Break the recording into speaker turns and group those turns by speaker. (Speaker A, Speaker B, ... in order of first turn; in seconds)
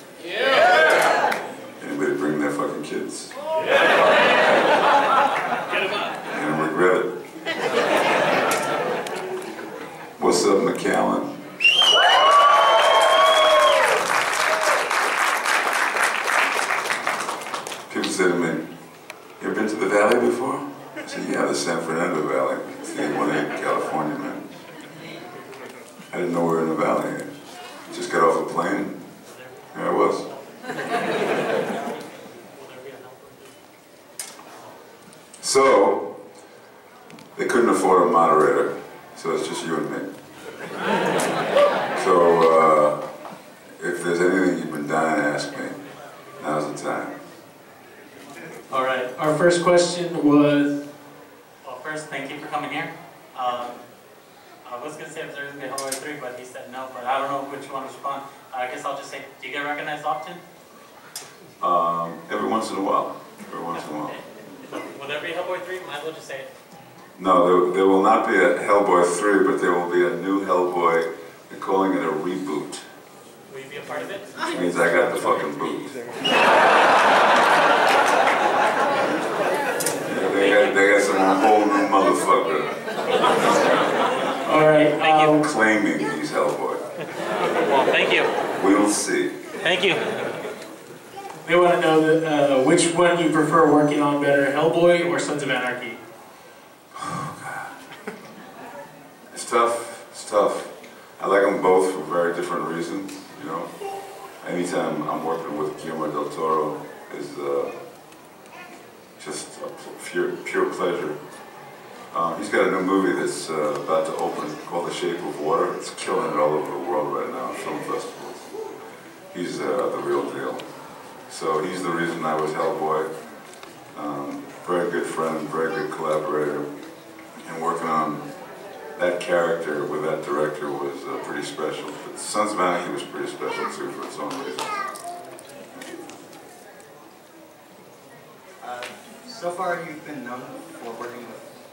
Speaker A: 1.8-3.3, 6.3-7.2, 10.2-11.3, 17.9-18.7, 19.4-24.5, 26.1-27.4, 27.9-29.0, 29.7-30.3, 35.4-36.2, 37.3-40.1, 41.9-43.1, 43.8-45.8, 46.4-47.2, 61.6-64.2, 67.2-72.8, 74.5-76.0, 80.0-83.7, 85.4-86.8, 88.5-89.4, 96.9-97.8, 99.3-107.8, 109.2-111.2, 112.1-118.6, 119.3-123.3, 123.8-126.7, 127.4-134.9
Speaker B: 29.3-29.7, 30.7-31.8, 32.5-33.5, 51.6-53.8, 54.6-60.4, 63.9-64.2, 64.8-66.5, 73.5-74.4, 84.7-85.4, 87.6-88.3, 89.6-90.0
Speaker C: 48.7-50.8, 84.5-85.5, 91.4-96.0
Speaker D: 138.6-141.4